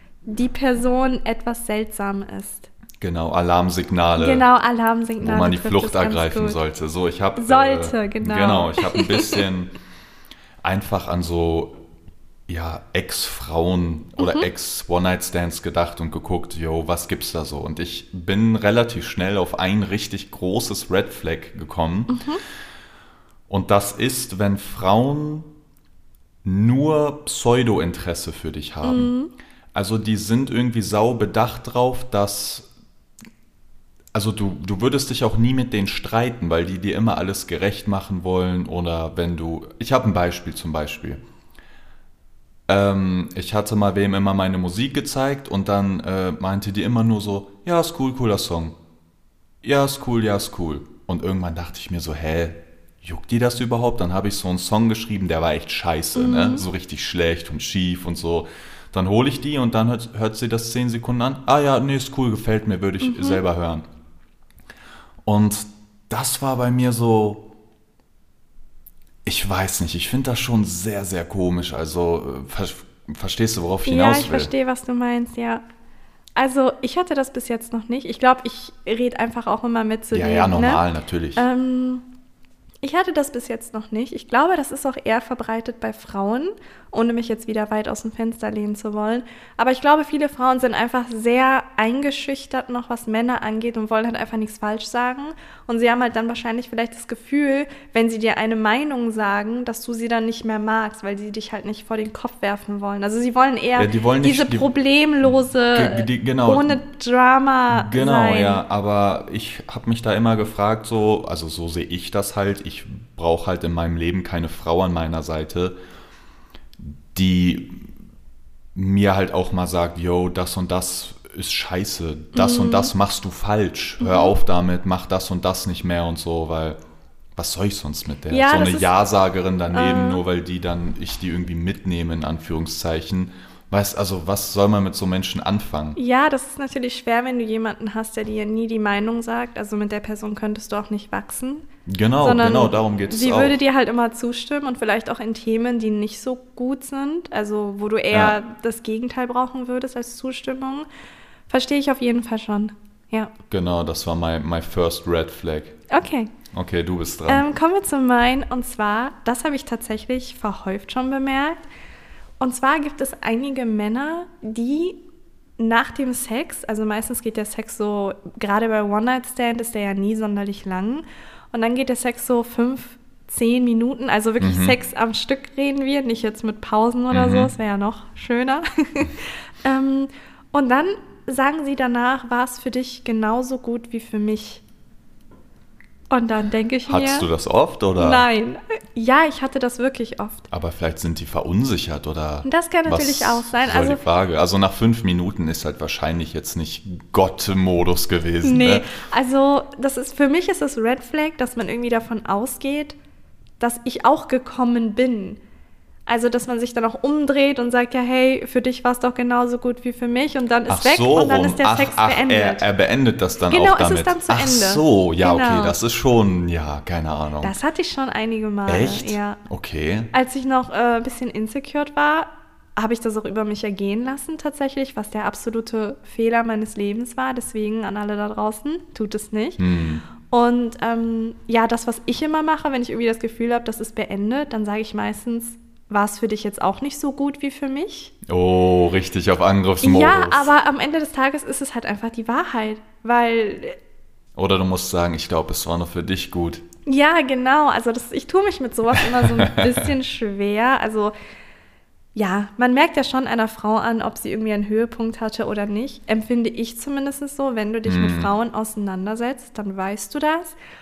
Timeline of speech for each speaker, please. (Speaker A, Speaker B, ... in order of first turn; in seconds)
Speaker A: 0.2-2.7, 4.2-6.6, 7.4-9.4, 14.2-14.4, 22.1-22.4, 28.8-29.3, 56.1-56.6, 63.0-63.4, 73.8-75.6, 76.3-80.8, 81.3-82.0, 82.8-108.6, 122.3-122.9, 124.0-124.3, 128.3-128.9, 129.7-130.2, 135.9-141.6, 142.2-150.9, 151.5-153.3, 155.9-156.3, 157.3-161.6, 162.4-165.0, 165.6-184.6, 186.1-187.3, 188.0-190.4, 192.4-194.0, 198.4-202.9, 203.6-205.4, 206.1-212.7, 213.4-215.8, 217.4-219.4, 220.1-229.6, 230.2-238.1, 239.8-243.8, 246.8-251.1, 252.1-260.6
Speaker B: 3.0-4.5, 5.2-9.7, 10.6-11.8, 12.5-22.2, 23.5-25.5, 26.4-29.1, 29.7-32.7, 34.1-41.2, 42.7-48.8, 49.6-63.9, 65.2-67.5, 69.2-74.5, 80.1-81.4, 103.8-104.7, 105.2-106.8, 107.7-115.8, 116.8-117.8, 118.7-126.8, 127.4-136.0, 141.9-143.6, 148.1-148.4, 153.5-155.8, 156.5-157.5, 174.4-174.8, 177.1-177.5, 186.9-188.3, 190.5-198.9, 210.7-217.6, 218.7-220.1, 229.6-230.0, 238.2-240.5, 244.3-246.6, 249.0-249.9, 257.8-258.3